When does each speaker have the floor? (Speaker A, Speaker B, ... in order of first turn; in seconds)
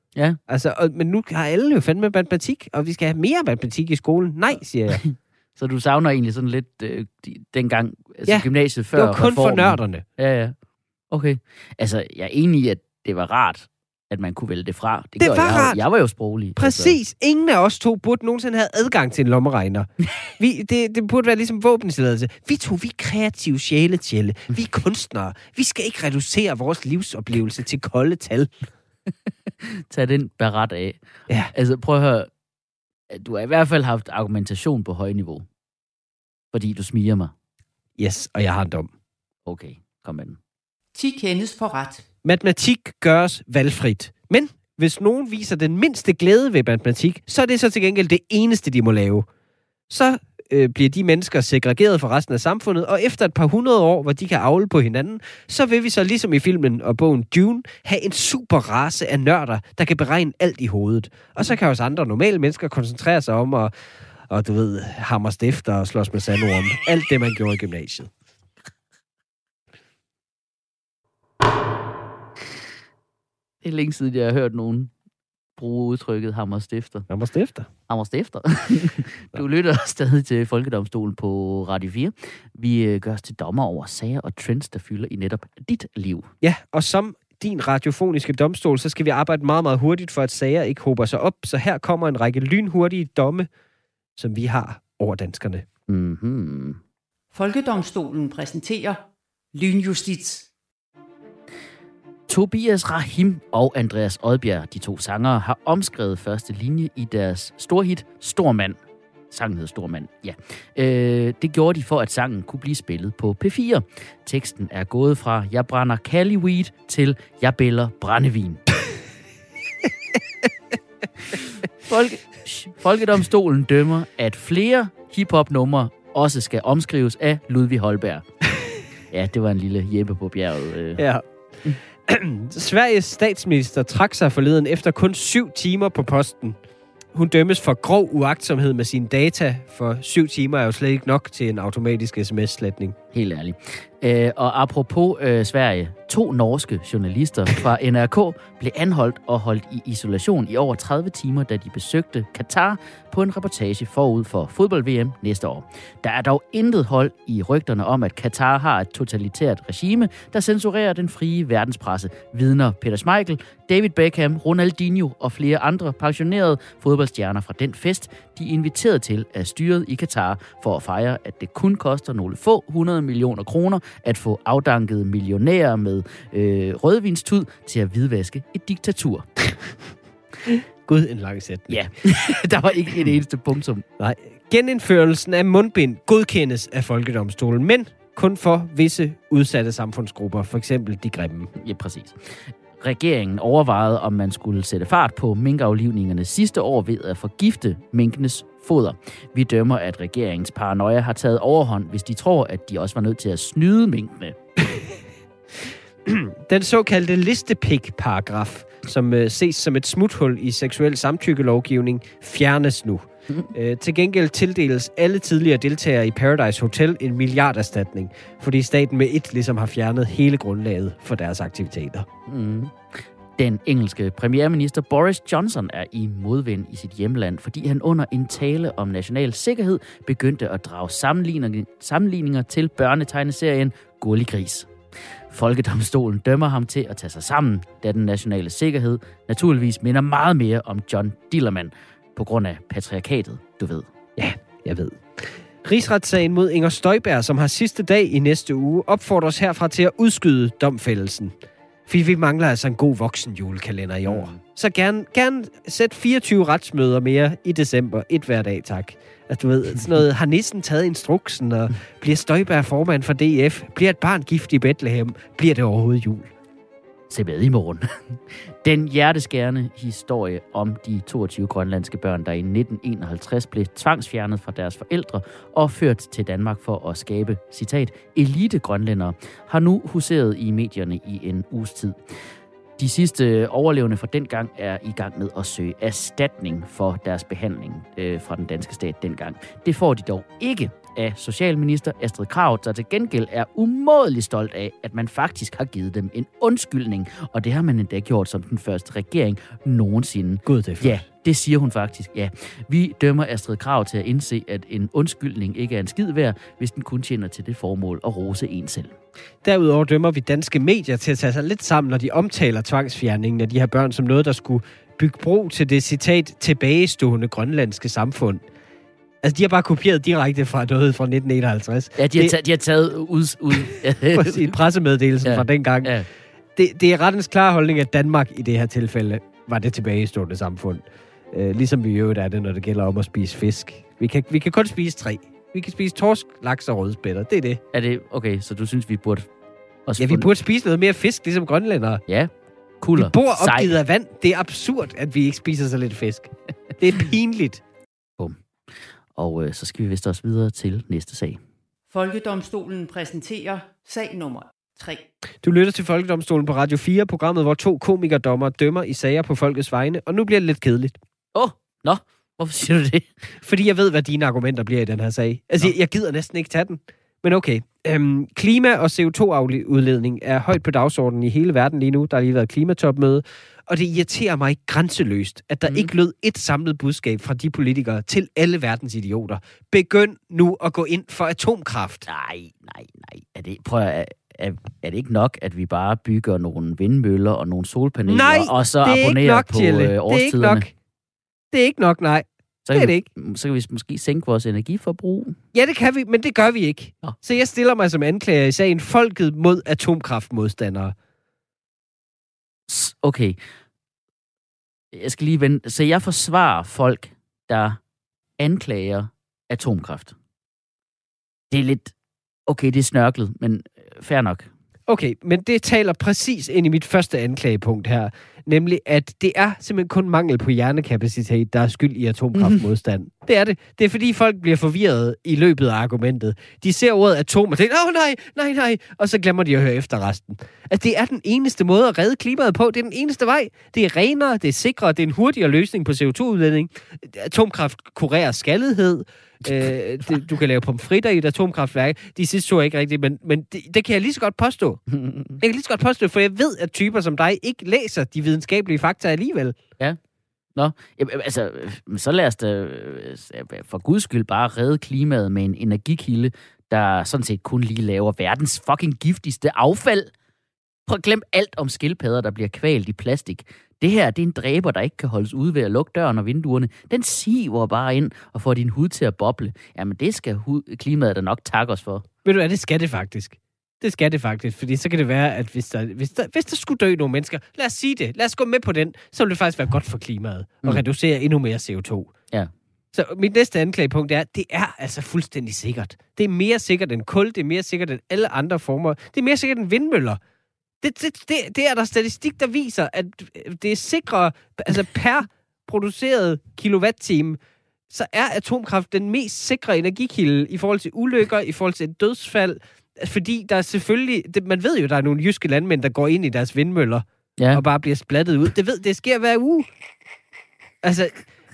Speaker A: 0.5-5.0, 8.3-10.0, 15.2-15.8, 16.6-28.7, 38.0-38.9, 42.2-49.3, 49.9-63.7, 64.3-68.1, 77.1-77.7, 86.4-93.5, 94.2-95.7, 131.0-136.6, 137.1-143.0, 180.4-181.9, 184.0-191.5, 206.1-222.1, 244.2-251.3, 251.9-266.3, 300.5-301.0, 309.4-318.4, 319.2-322.4, 324.1-326.0, 326.6-337.6, 340.0-342.0, 343.0-347.6, 355.4-361.0, 363.4-382.1, 388.1-390.7, 391.5-393.1, 395.5-400.9, 414.9-444.8, 445.4-449.6, 472.2-482.1, 482.9-490.2, 490.8-497.4, 497.9-509.7, 510.8-511.3
Speaker B: 4.9-10.6, 11.1-17.0, 29.6-32.3, 33.1-35.5, 36.5-37.3, 39.5-40.4, 73.6-74.9, 75.6-77.1, 77.9-86.3, 95.9-96.8, 102.3-108.8, 109.3-118.6, 121.8-128.3, 129.1-131.0, 143.1-179.5, 181.7-183.8, 191.6-204.4, 222.3-234.7, 235.3-243.9, 254.1-254.4, 267.1-308.9, 322.0-324.6, 325.2-326.1, 337.7-339.3, 339.9-340.3, 342.1-343.8, 349.1-351.4, 361.3-363.1, 382.1-390.7, 392.7-395.4, 402.7-403.4, 404.9-407.8, 408.4-410.1, 411.5-411.9, 412.5-414.5, 444.9-445.4, 450.6-460.1, 460.9-472.1, 507.4-507.6
Speaker C: 40.9-42.0, 97.3-99.0, 99.5-100.5, 351.9-355.1